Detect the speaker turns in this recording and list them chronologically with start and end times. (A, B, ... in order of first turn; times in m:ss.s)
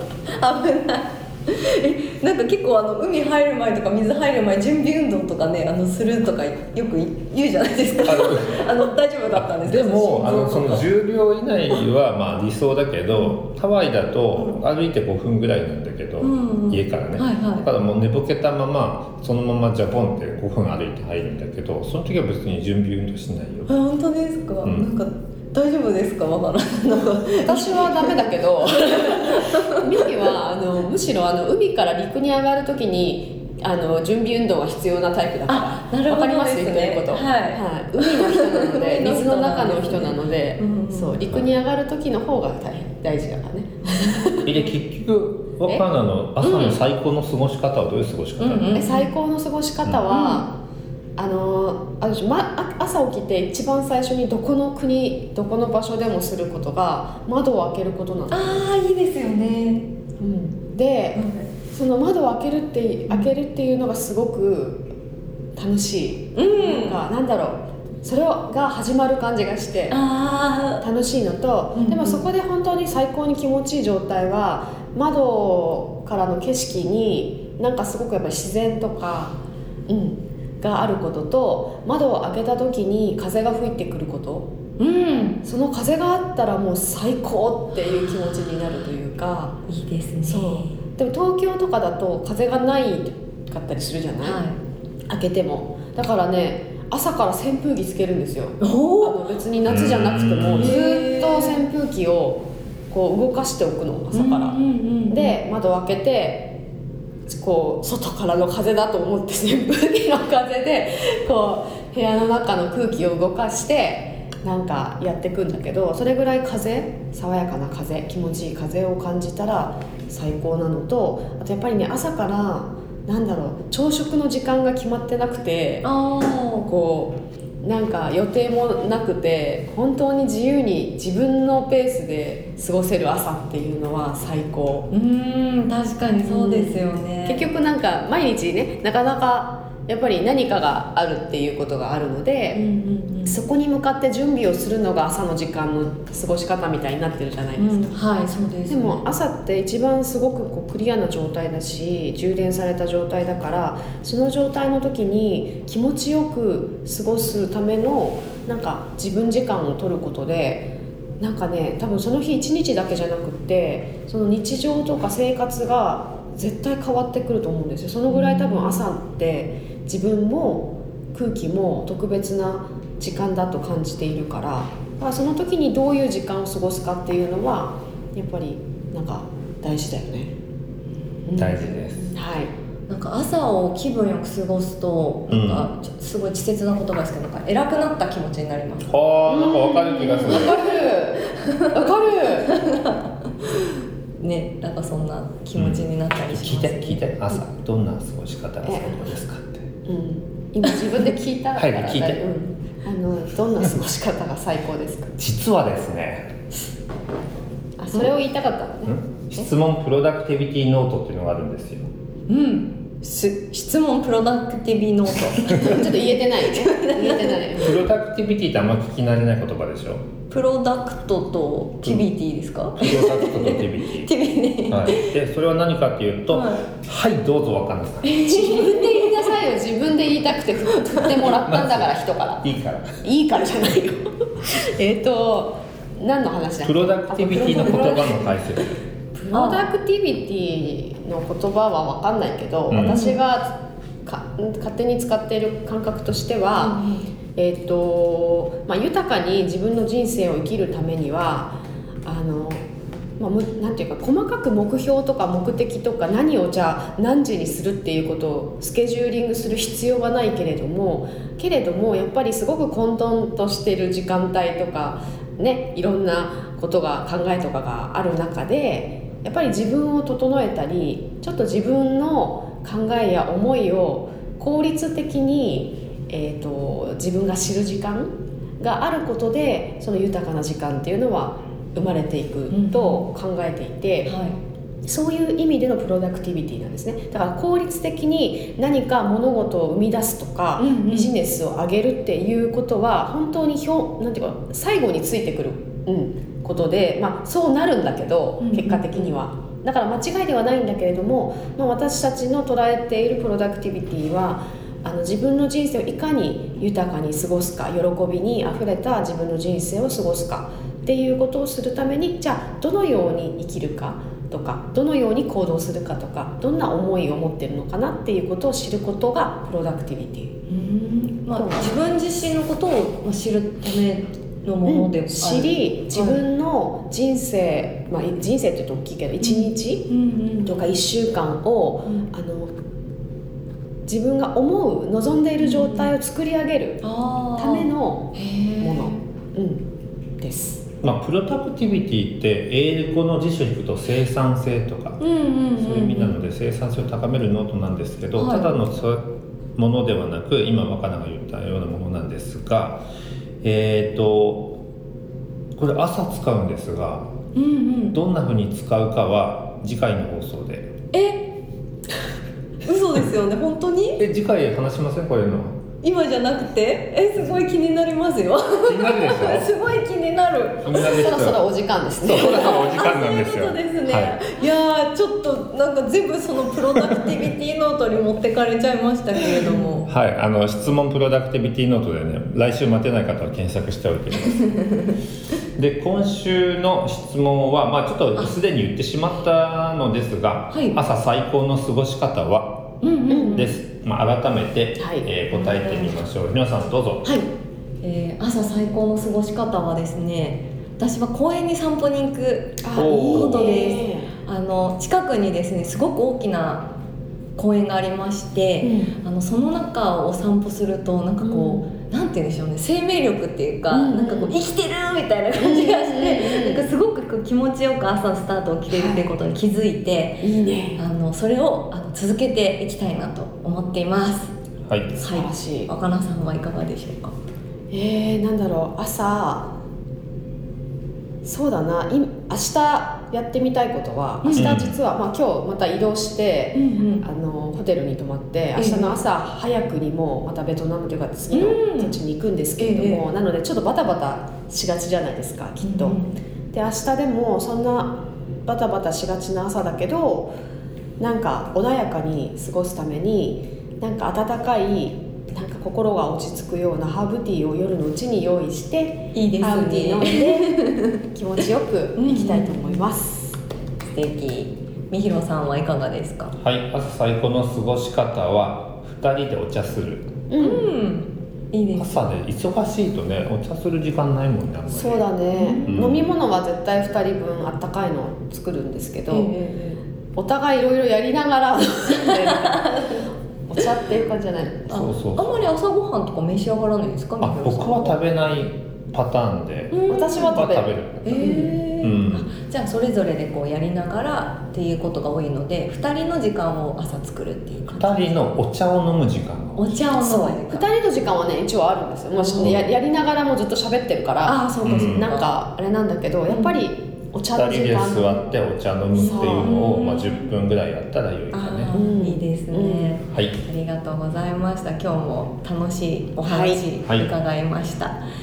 0:00.3-0:10.8 A
0:08.0-0:08.7 B
0:09.4-0:23.7 B
0:16.2-0:17.6 A
0:23.7-0:28.1 A
0:24.6-0:24.9 B
0:27.4-0:44.5 C
0:28.8-0:30.1 A
0:35.5-0:41.2 A
0:43.9-0:44.2 A
0:44.4-0:48.8 B
0:46.4-0:46.8 A
0:48.4-0:49.1 A
0:48.7-0:50.6 C
0:50.1-0:50.4 A
0:51.2-0:58.7 C
0:58.3-0:59.9 A
1:00.2-1:04.8 C
1:01.1-1:01.5 A
1:05.6-1:10.0 C
1:06.4-1:07.0 A
1:09.9-1:10.8 A
1:10.8-1:19.4 C
1:11.7-1:12.2 A
1:19.9-1:24.5 C
1:24.8-1:25.4 A
1:25.4-1:29.6 C
1:29.7-1:30.8 A
1:30.2-1:34.4 C
1:34.2-1:34.6 A
1:35.1-1:46.6 C
1:38.6-1:39.2 A
1:39.6-1:40.8 B
1:40.6-1:41.6 A
1:44.1-1:45.4 A
1:47.3-2:05.8 C
2:05.8-2:06.7 A
2:06.6-2:14.9 C
2:14.9-2:17.4 A
2:16.2-2:22.6 C
2:22.5-2:23.4 A
2:23.2-2:27.9 C
2:27.6-2:29.0 A
2:28.7-3:00.3 C
2:48.1-2:48.9 A
3:01.2-3:02.5 C
3:01.4-3:02.1 B
3:02.9-3:08.9 A
3:05.3-3:05.7 B
3:08.8-3:10.6 B
3:09.3-3:12.5 C
3:10.3-3:10.7 A
3:11.2-3:11.7 A
3:12.4-3:17.3 A
3:15.6-3:19.7 B
3:18.6-3:19.0 C
3:19.8-3:25.1 C
3:21.6-3:22.2 B
3:25.2-3:26.3 B
3:27.8-3:29.0 C
3:28.9-3:31.9 B
3:32.3-3:37.6 A
3:35.5-3:37.8 C
3:37.6-3:40.0 B
3:40.3-3:45.1 A
3:42.8-3:44.1 B
3:44.7-3:48.1 B
3:46.3-3:46.7 A
3:48.0-3:49.3 A
3:48.2-3:58.4 C
3:51.4-3:51.9 B
3:52.4-3:53.0 B
3:56.6-3:58.8 B
3:59.2-3:59.6 A
3:59.3-4:06.8 C
4:02.7-4:03.0 B
4:02.8-4:03.2 A
4:06.6-4:07.0 A
4:07.4-4:12.6 C
4:13.2-4:44.1 C
4:42.5-4:43.1 A
4:44.0-4:44.4 A
4:44.8-5:20.3 C
4:50.6-4:51.1 A
4:58.4-4:59.1 A
5:20.5-5:26.2 A
5:21.3-5:21.7 C
5:24.6-5:29.9 C
5:29.2-5:30.6 A
5:30.4-5:32.5 C
5:33.8-5:39.6 C
5:35.4-5:35.9 A
5:36.8-5:39.0 A
5:40.2-5:40.6 C
5:40.8-5:45.0 B
5:45.0-5:46.2 A
5:45.6-5:52.8 B
5:48.2-5:48.5 A
5:53.4-5:54.6 B
5:55.6-5:57.1 B
5:57.3-5:58.0 A
5:57.9-6:00.7 B
6:00.9-6:01.2 A
6:02.6-6:04.0 A
6:04.0-6:05.6 B
6:05.8-6:11.1 A
6:08.6-6:09.5 B
6:10.6-6:11.4 B
6:10.7-6:12.7 C
6:12.0-6:14.2 B
6:12.1-6:19.9 A
6:19.9-6:24.5 B
6:24.4-6:24.9 A
6:25.6-6:32.7 B
6:30.5-6:30.8 A
6:32.8-6:33.5 A
6:33.1-6:33.5 C
6:33.3-6:37.1 B
6:34.8-6:35.0 C
6:35.3-6:35.9 A
6:37.0-6:37.3 A
6:37.8-6:46.7 A
6:42.6-6:44.1 C
6:42.7-6:43.7 B
6:47.4-7:04.3 A
6:48.6-6:48.9 C
6:51.2-6:51.6 C
6:53.7-6:54.3 C
6:55.4-6:56.6 C
6:58.7-6:59.0 C
7:00.2-7:00.8 C
7:04.6-7:05.0 B
7:05.0-7:07.1 A
7:05.0-7:05.7 C
7:07.7-7:09.5 C
7:11.2-7:26.0 C
7:14.2-7:14.6 A
7:14.3-7:14.8 B
7:16.5-7:17.0 A
7:18.6-7:19.0 A
7:21.3-7:22.0 A
7:22.6-7:23.0 A
7:25.6-7:26.2 A
7:26.5-7:30.3 C
7:31.0-7:43.4 C
7:39.1-7:41.0 A
7:42.0-7:42.8 A
7:43.9-7:46.3 A
7:46.4-7:50.1 B
7:50.3-7:50.7 C
7:50.4-7:51.9 A
7:51.8-7:55.1 B
7:54.7-7:59.3 C
7:55.3-7:55.9 A
7:55.6-7:56.1 B
7:59.1-7:59.8 A
8:00.2-8:02.8 C
8:01.9-8:03.0 A
8:03.5-8:04.8 C
8:04.7-8:05.5 B
8:04.7-8:08.0 A
8:07.2-8:11.2 B
8:09.7-8:10.4 A
8:09.9-8:11.6 C
8:11.0-8:18.3 A
8:11.8-8:12.3 B
8:17.7-8:19.7 B
8:19.6-8:20.6 A
8:19.9-8:28.2 C
8:22.2-8:22.6 A
8:24.2-8:25.3 A
8:24.6-8:25.1 B
8:26.3-8:26.5 A
8:27.3-8:31.7 B
8:28.9-8:30.3 A
8:29.0-8:29.7 C
8:31.3-8:38.0 A
8:31.7-8:33.0 C
8:36.2-8:36.6 C